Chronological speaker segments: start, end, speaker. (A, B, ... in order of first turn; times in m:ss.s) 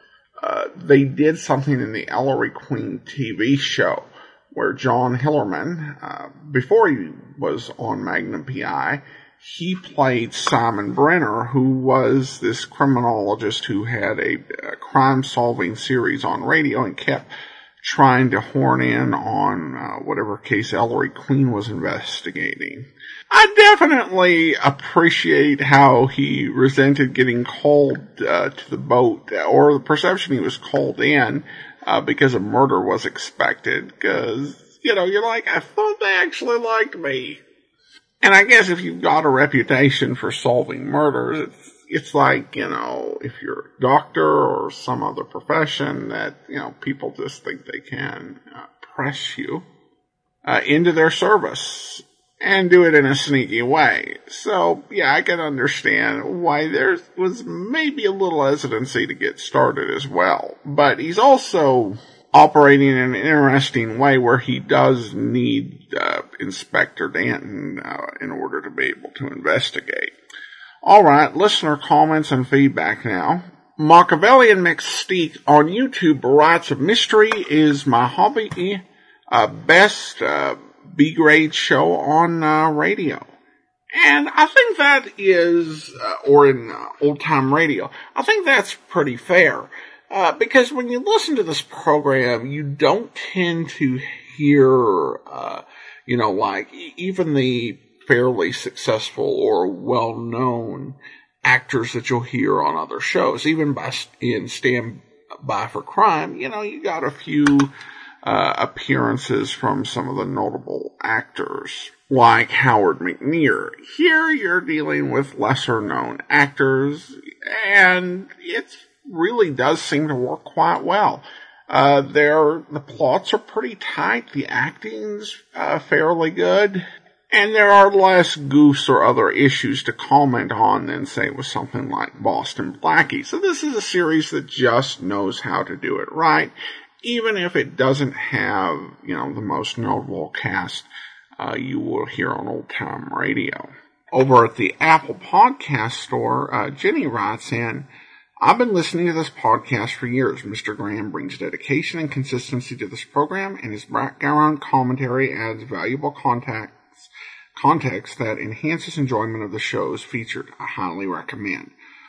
0:00.4-0:17.3 A
0:17.8-0:37.4 A
0:38.2-0:49.6 A
0:50.4-1:10.1 A
1:10.8-1:23.3 A
1:23.9-1:47.7 A
1:48.2-2:27.9 A
2:28.4-2:41.7 A